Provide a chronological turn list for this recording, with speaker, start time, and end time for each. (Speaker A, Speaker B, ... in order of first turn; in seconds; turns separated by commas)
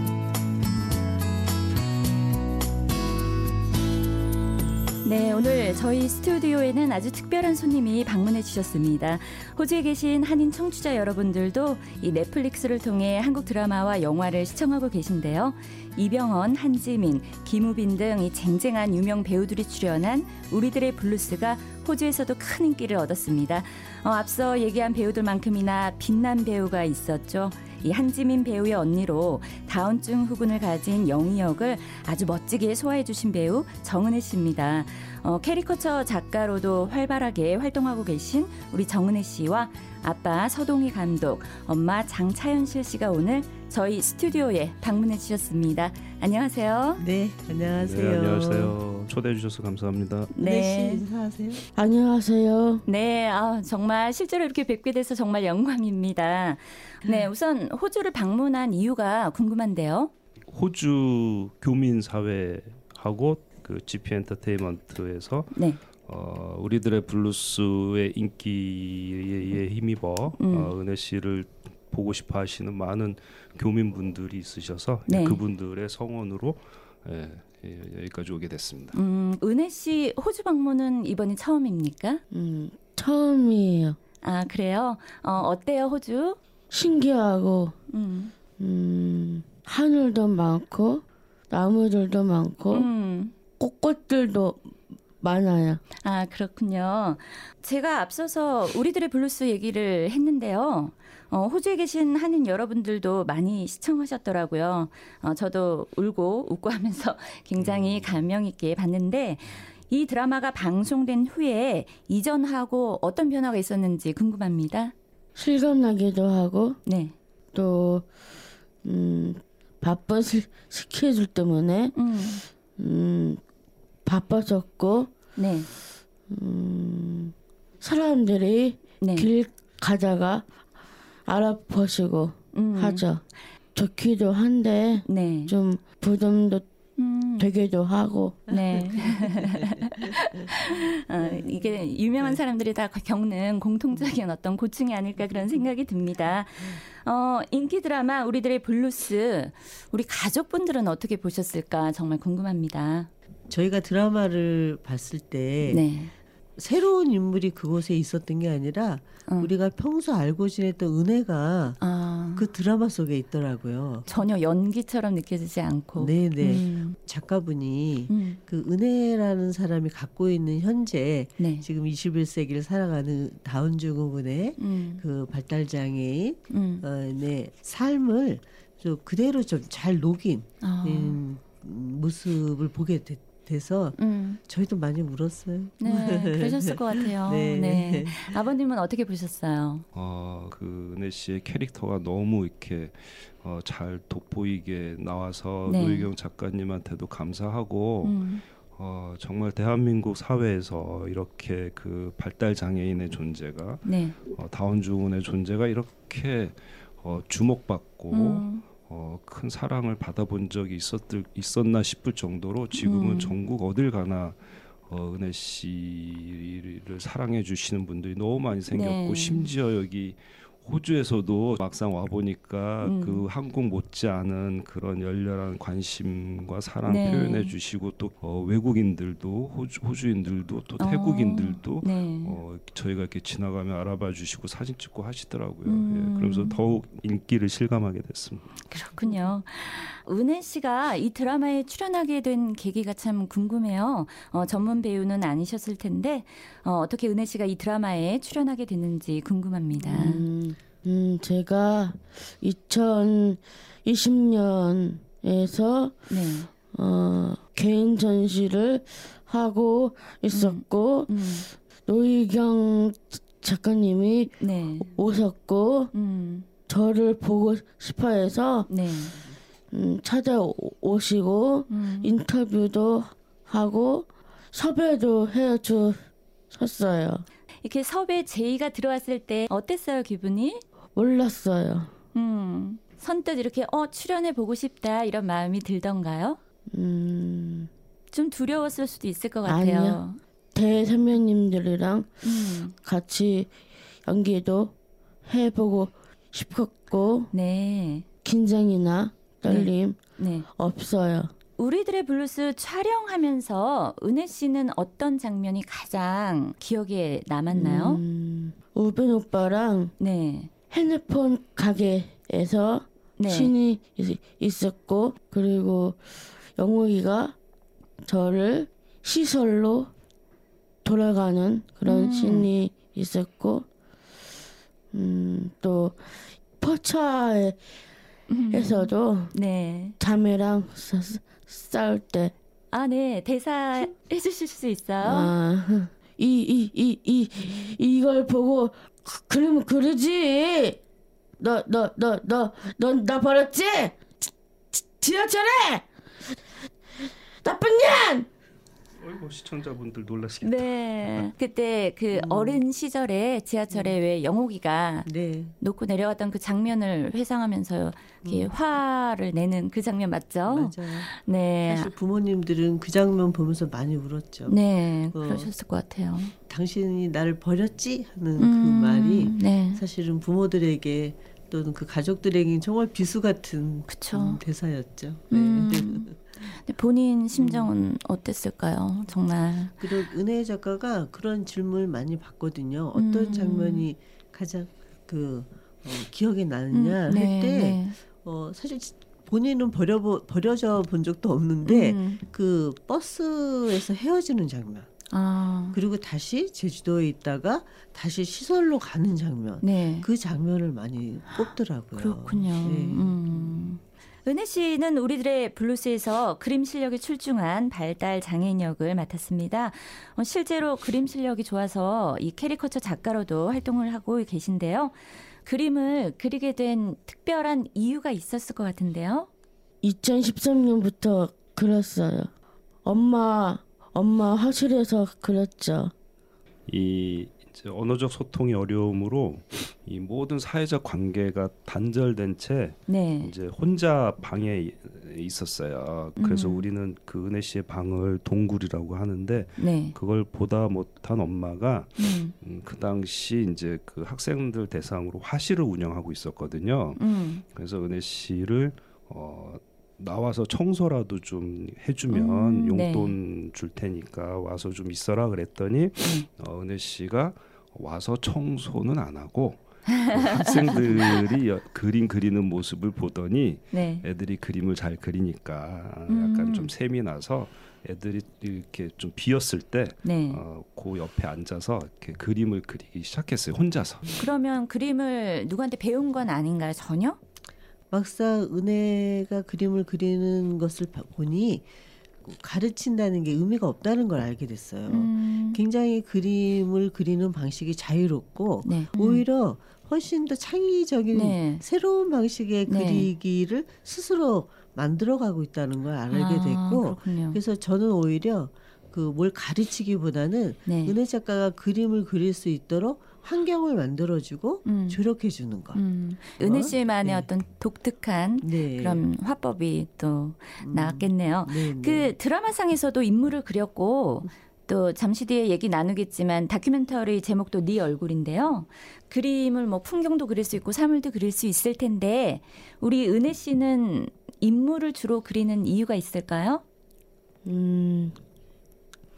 Speaker A: 5.0-47.0, Speaker B: 47.0-48.8, Speaker C: 47.7-50.3, Speaker A: 50.3-51.0, Speaker B: 50.4-51.6, Speaker D: 51.7-52.8, Speaker A: 52.9-60.1, Speaker C: 60.5-79.0, Speaker A: 65.5-65.8, Speaker A: 70.4-70.7, Speaker A: 75.1-75.4, Speaker A: 78.9-82.2, Speaker D: 82.3-84.0, Speaker A: 84.2-86.4, Speaker D: 86.7-87.7, Speaker A: 87.9-88.3, Speaker D: 88.6-92.9, Speaker A: 92.7-93.3, Speaker D: 93.6-95.8, Speaker A: 96.0-114.9, Speaker C: 107.6-108.2, Speaker D: 115.3-116.8, Speaker A: 116.8-117.2, Speaker D: 117.5-118.0, Speaker D: 118.8-122.0, Speaker A: 121.9-122.4, Speaker D: 122.8-123.4, Speaker D: 124.0-125.1, Speaker A: 125.3-125.7, Speaker D: 126.3-130.4, Speaker A: 129.0-129.3, Speaker D: 131.2-133.2, Speaker A: 132.5-133.1, Speaker D: 133.7-136.6, Speaker A: 135.0-135.5, Speaker A: 137.0-137.5, Speaker D: 137.4-138.4, Speaker A: 138.5-153.1, Speaker B: 138.5-140.1, Speaker B: 141.2-142.4, Speaker B: 143.9-144.2, Speaker B: 153.5-155.8, Speaker A: 155.6-156.1, Speaker B: 156.6-161.8, Speaker A: 159.2-159.5, Speaker A: 161.8-162.5, Speaker B: 162.3-164.1, Speaker A: 164.1-167.0, Speaker B: 165.9-188.4, Speaker A: 168.1-168.4, Speaker A: 171.4-171.7, Speaker A: 174.6-175.0, Speaker A: 176.5-176.8, Speaker A: 180.6-181.2, Speaker A: 183.9-184.4, Speaker A: 185.8-189.8, Speaker C: 189.9-198.2, Speaker A: 195.7-196.1, Speaker A: 198.0-198.4, Speaker C: 198.7-238.5, Speaker A: 203.8-204.2, Speaker A: 208.1-208.7, Speaker A: 212.7-213.4, Speaker A: 218.7-219.5, Speaker A: 222.8-223.2, Speaker A: 226.8-227.5, Speaker A: 230.8-232.4, Speaker A: 235.6-236.6, Speaker A: 238.6-250.3, Speaker D: 249.8-256.1, Speaker A: 256.1-256.5, Speaker D: 256.7-265.9, Speaker A: 260.3-261.5, Speaker A: 264.4-265.0, Speaker A: 265.9-266.5, Speaker D: 266.7-268.7, Speaker A: 268.7-269.2, Speaker D: 269.7-277.2, Speaker A: 271.7-272.2, Speaker A: 277.6-280.6, Speaker D: 280.9-281.9, Speaker A: 282.1-286.4, Speaker D: 286.7-287.7, Speaker A: 288.1-290.2, Speaker D: 289.4-290.0, Speaker D: 290.5-293.5, Speaker A: 292.2-292.7, Speaker D: 294.0-294.7, Speaker D: 295.2-297.3, Speaker A: 297.3-298.1, Speaker D: 298.2-301.3, Speaker A: 299.5-300.5, Speaker A: 301.6-308.0, Speaker D: 307.5-309.9, Speaker A: 310.0-310.5, Speaker D: 310.7-317.4, Speaker A: 313.2-313.5, Speaker D: 318.0-319.9, Speaker D: 320.8-323.6, Speaker A: 321.8-322.5, Speaker D: 324.9-327.6, Speaker A: 328.3-329.9, Speaker D: 328.5-329.3, Speaker D: 330.0-332.3, Speaker A: 332.7-335.3, Speaker D: 335.0-340.8, Speaker D: 341.4-345.9, Speaker D: 347.4-348.3, Speaker C: 349.0-351.3, Speaker A: 350.4-355.1, Speaker B: 352.1-352.6, Speaker B: 353.7-354.0, Speaker B: 355.1-355.5, Speaker A: 355.6-361.9, Speaker B: 358.2-358.5, Speaker B: 360.4-361.1, Speaker B: 361.6-364.6, Speaker A: 364.5-366.3, Speaker B: 365.1-365.5, Speaker B: 366.5-376.2, Speaker A: 368.4-369.8, Speaker A: 373.9-374.4, Speaker A: 375.3-380.0, Speaker B: 377.4-377.7, Speaker B: 379.8-394.9, Speaker A: 382.9-383.9, Speaker A: 386.7-388.0, Speaker A: 391.6-392.2, Speaker A: 395.1-395.8, Speaker B: 395.7-403.6, Speaker A: 399.6-400.1, Speaker A: 401.4-419.3, Speaker D: 419.8-422.3, Speaker D: 422.8-425.9, Speaker C: 426.7-474.0, Speaker A: 432.9-433.3, Speaker A: 436.2-436.7, Speaker A: 439.6-439.9, Speaker A: 442.0-442.3, Speaker A: 447.0-447.4, Speaker A: 452.1-453.2, Speaker A: 459.9-461.2, Speaker A: 463.7-464.1, Speaker A: 466.1-466.7, Speaker A: 470.0-470.4, Speaker A: 474.1-477.2, Speaker B: 477.9-481.7, Speaker B: 482.2-505.8, Speaker A: 484.9-485.6, Speaker A: 488.6-489.2, Speaker A: 491.1-491.6, Speaker A: 492.7-493.1, Speaker A: 496.1-497.4, Speaker A: 500.6-500.9, Speaker A: 504.6-505.0, Speaker A: 505.7-526.6, Speaker B: 506.4-507.3, Speaker B: 508.4-509.0, Speaker B: 510.6-512.1, Speaker D: 527.4-528.2